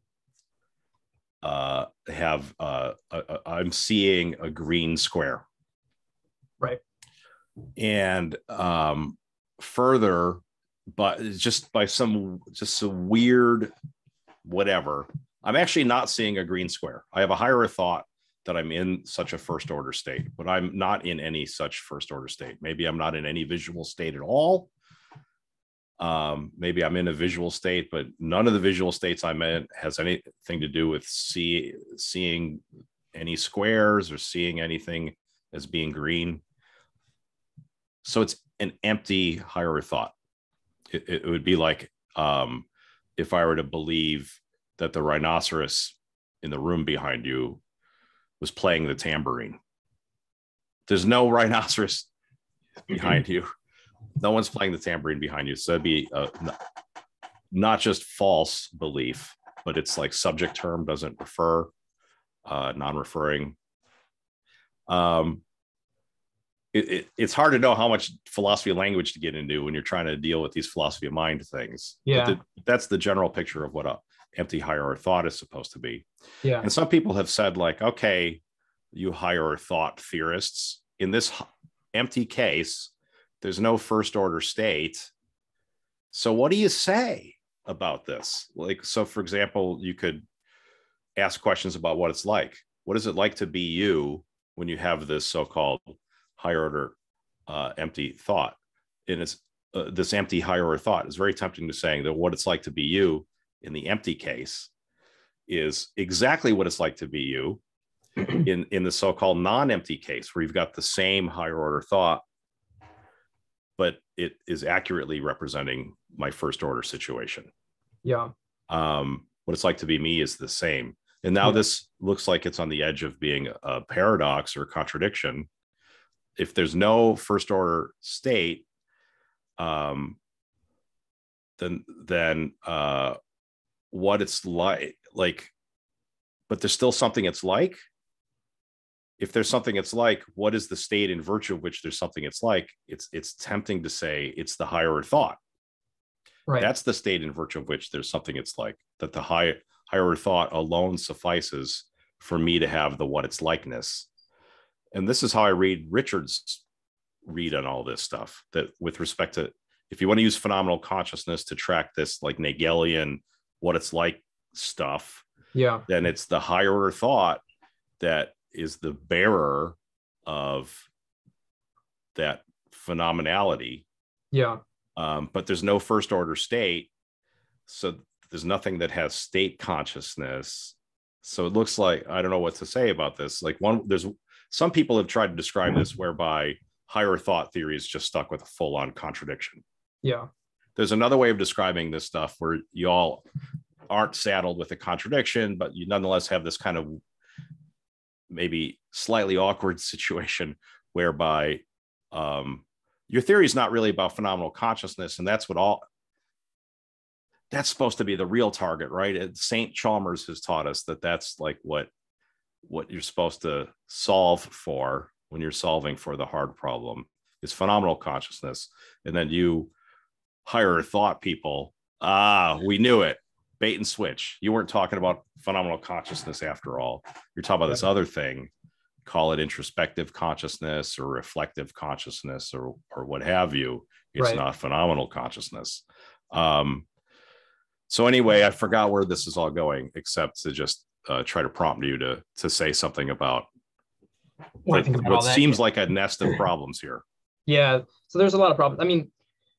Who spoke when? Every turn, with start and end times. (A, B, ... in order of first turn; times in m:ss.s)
0:01.4-0:05.4 A
0:07.8-0:10.4 A
0:10.9-0:13.7 A
0:14.4-0:24.7 A
0:26.0-0:32.6 A
0:33.1-0:36.4 A
0:38.0-0:40.1 A
0:40.9-0:42.6 A
0:43.2-0:47.6 A
0:48.4-0:49.6 A
0:50.9-0:52.1 A
0:52.9-0:53.5 A
0:54.2-0:56.6 A
0:57.5-1:01.7 A
1:02.4-1:03.6 A
1:04.9-1:05.4 A
1:06.7-1:16.1 A
1:12.0-1:12.4 B
1:16.6-1:18.4 A
1:18.9-1:25.1 A
1:26.1-1:30.2 A
1:31.2-1:36.9 A
1:37.5-1:44.7 A
1:45.5-1:47.6 A
1:48.3-1:52.2 A
1:53.8-1:57.5 A
1:58.0-1:58.3 B
1:58.7-2:05.5 A
2:06.4-2:08.6 A
2:09.6-2:10.2 A
2:11.6-2:13.2 A
2:13.9-2:15.5 A
2:16.5-2:17.8 A
2:19.2-2:25.4 A
2:26.6-2:34.1 A
2:34.9-2:36.6 A
2:37.2-2:45.2 A
2:45.5-2:45.8 B
2:45.9-2:47.4 A
2:48.0-2:50.9 A
2:52.1-2:53.8 A
2:54.3-2:54.6 B
2:55.0-2:56.9 A
2:57.7-3:09.6 A
3:10.0-3:10.3 B
3:10.8-3:13.2 A
3:13.9-3:17.0 A
3:18.3-3:25.8 A
3:27.5-3:31.9 A
3:32.6-3:39.7 A
3:40.4-3:48.5 A
3:49.0-3:56.8 A
3:54.2-3:54.4 B
3:57.9-4:03.5 A
4:04.6-4:05.6 B
4:04.7-4:07.0 A
4:07.5-4:09.1 B